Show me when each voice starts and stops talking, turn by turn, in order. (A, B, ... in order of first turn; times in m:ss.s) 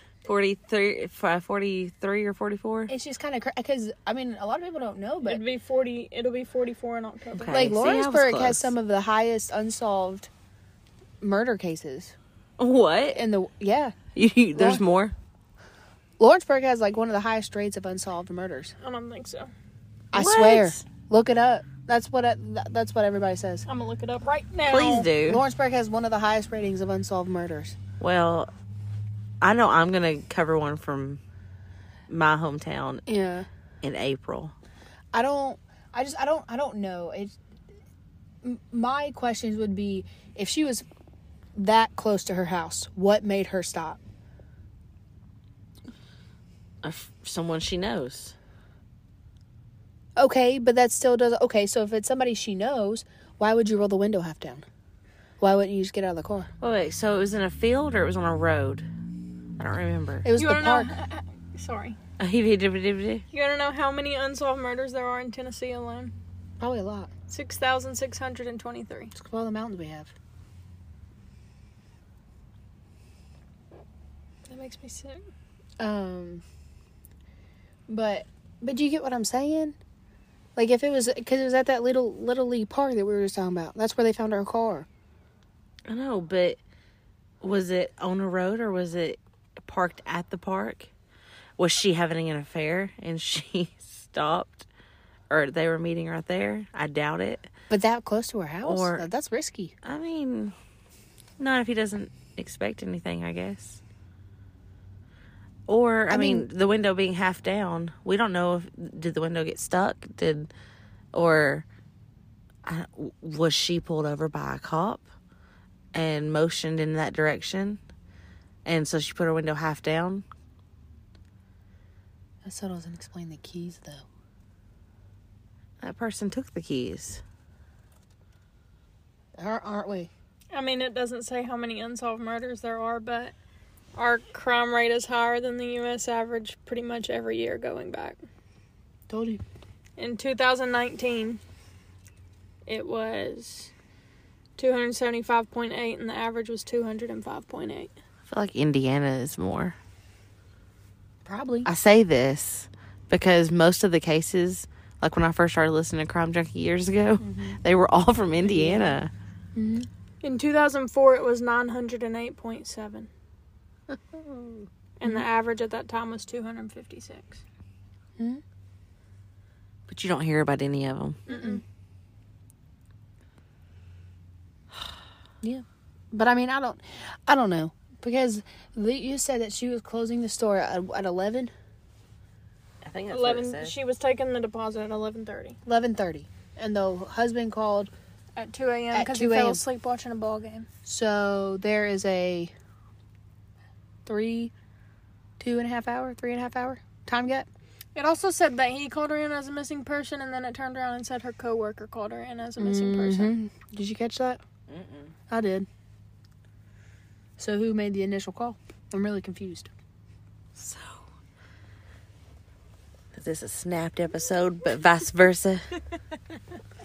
0:00.2-0:02.9 A
0:02.9-0:05.4 B
0:05.2-0:07.6 C
0:07.3-0:08.7 A
0:07.5-0:10.3 B
0:11.2-0:12.1 B
0:12.6-0:13.2 A
0:13.1-0:14.0 B
0:14.2-0:15.1 A
0:14.5-0:14.8 B
0:16.2-0:18.7 B
0:18.8-0:19.5 C
0:20.1-0:23.6 B
0:20.1-0:20.8 A
0:23.6-0:25.1 C
0:24.7-0:25.4 A
0:25.2-0:27.8 B
0:28.0-0:28.5 A
0:29.4-0:31.2 A
0:32.1-0:33.0 A
0:33.1-0:33.5 B
0:33.8-0:34.5 A
0:35.1-0:37.4 B
0:38.4-0:40.8 B
0:41.6-0:44.0 B
0:46.8-0:48.3 A
0:50.2-0:54.6 B
0:55.4-0:56.5 B
0:56.6-0:58.8 A
0:59.6-1:00.3 A
1:00.2-1:00.9 B
1:00.4-1:02.0 C
1:02.2-1:03.2 A
1:03.3-1:06.1 C
1:06.6-1:07.1 B
1:07.3-1:09.1 C
1:09.1-1:10.1 B
1:14.5-1:15.2 C
1:15.8-1:16.4 B
1:17.9-1:19.8 B
1:20.6-1:24.9 B
1:25.9-1:26.6 A
1:27.4-1:30.9 A
1:31.6-1:34.7 A
1:35.3-1:37.5 A
1:37.7-1:39.7 B
1:38.6-1:39.0 A
1:39.8-1:40.5 A
1:41.4-1:43.8 A
1:45.7-1:50.5 A
1:46.1-1:46.5 B
1:51.1-1:51.6 A
1:52.6-1:55.0 A
1:55.9-1:57.8 A
1:58.6-2:00.2 A
2:02.4-2:04.0 B
2:05.8-2:07.2 A
2:09.4-2:10.1 B
2:10.5-2:13.3 C
2:14.0-2:18.2 C
2:19.1-2:19.4 B
2:20.0-2:21.4 C
2:22.7-2:23.7 C
2:24.6-2:27.9 C
2:28.3-2:29.8 A
2:31.2-2:31.7 B
2:31.6-2:39.1 A
2:37.2-2:37.6 B
2:38.4-2:39.0 B
2:39.5-2:39.9 B
2:40.2-2:43.1 C
2:45.0-2:47.4 C
2:49.9-2:51.2 A
2:51.3-2:51.6 C
2:51.3-2:51.6 B
2:55.4-3:01.5 B
3:02.8-3:03.7 A
3:03.1-3:05.6 C
3:05.6-3:07.9 B
3:08.4-3:10.7 C
3:08.9-3:09.6 B
3:10.8-3:12.5 B
3:14.0-3:14.5 B
3:15.4-3:17.5 B
3:17.9-3:23.3 C
3:22.6-3:24.4 B
3:24.7-3:25.1 A
3:25.3-3:25.7 B
3:27.4-3:29.7 B
3:30.6-3:31.0 A
3:33.1-3:35.7 A